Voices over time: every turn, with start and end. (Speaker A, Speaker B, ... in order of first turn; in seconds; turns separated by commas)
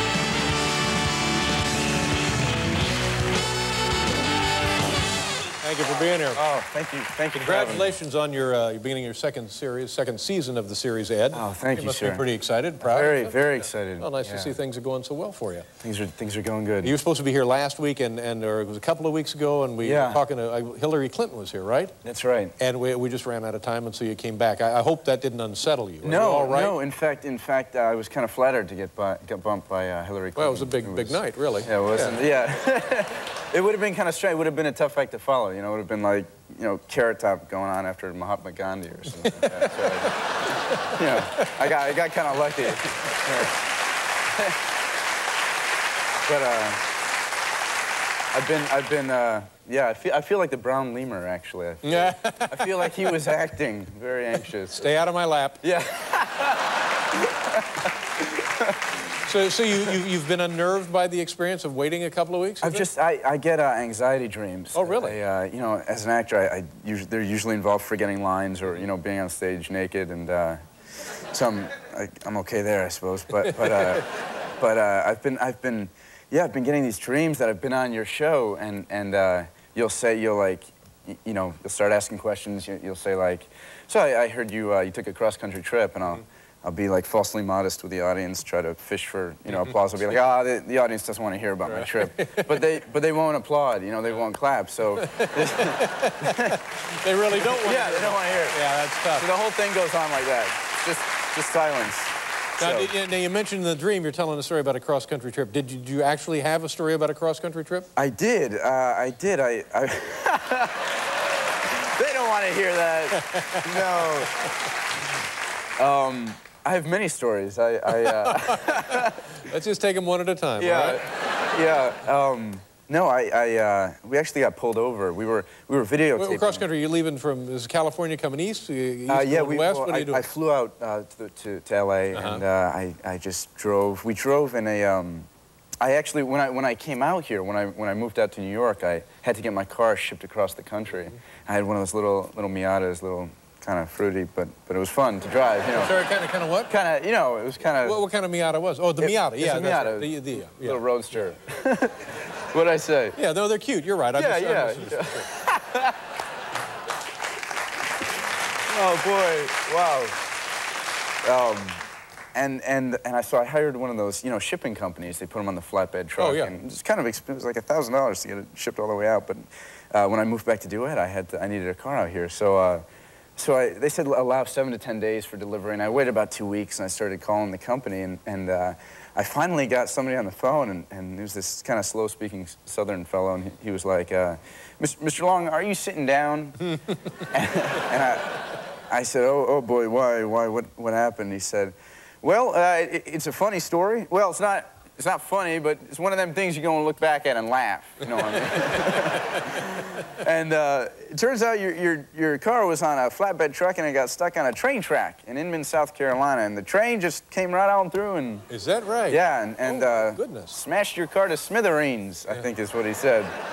Speaker A: 5.6-6.4, Speaker B: 6.3-7.9, Speaker A: 7.4-15.7, Speaker B: 11.3-12.2, Speaker B: 12.8-14.6, Speaker B: 15.8-16.9, Speaker A: 16.8-21.9, Speaker B: 19.8-20.2, Speaker B: 22.0-22.6, Speaker A: 22.6-26.8, Speaker B: 26.0-40.1, Speaker A: 30.4-32.2, Speaker A: 39.2-41.5, Speaker B: 40.8-43.6, Speaker B: 46.3-46.8, Speaker B: 48.3-54.9, Speaker A: 51.9-53.0, Speaker A: 54.7-55.6, Speaker B: 55.6-58.8, Speaker A: 59.1-62.9, Speaker B: 62.6-70.6, Speaker A: 64.8-65.2, Speaker B: 71.3-96.6, Speaker A: 91.7-92.6, Speaker A: 95.1-99.3, Speaker B: 97.3-98.6, Speaker B: 99.2-102.9, Speaker A: 102.6-107.9, Speaker B: 108.0-110.9, Speaker B: 111.7-114.4, Speaker A: 113.2-113.7, Speaker B: 115.8-119.4, Speaker A: 118.0-121.0, Speaker B: 120.6-126.6, Speaker A: 126.2-130.2, Speaker B: 129.1-135.3, Speaker A: 132.1-132.4, Speaker B: 135.8-146.0, Speaker A: 145.8-146.7, Speaker B: 146.7-148.0, Speaker A: 147.8-150.8, Speaker B: 149.0-153.2, Speaker A: 153.2-155.3, Speaker B: 154.2-156.0, Speaker B: 158.7-160.2, Speaker B: 161.2-161.8, Speaker B: 162.3-172.8, Speaker A: 166.2-166.6, Speaker B: 173.4-186.7, Speaker B: 187.3-208.5, Speaker A: 208.5-210.6, Speaker B: 209.1-213.3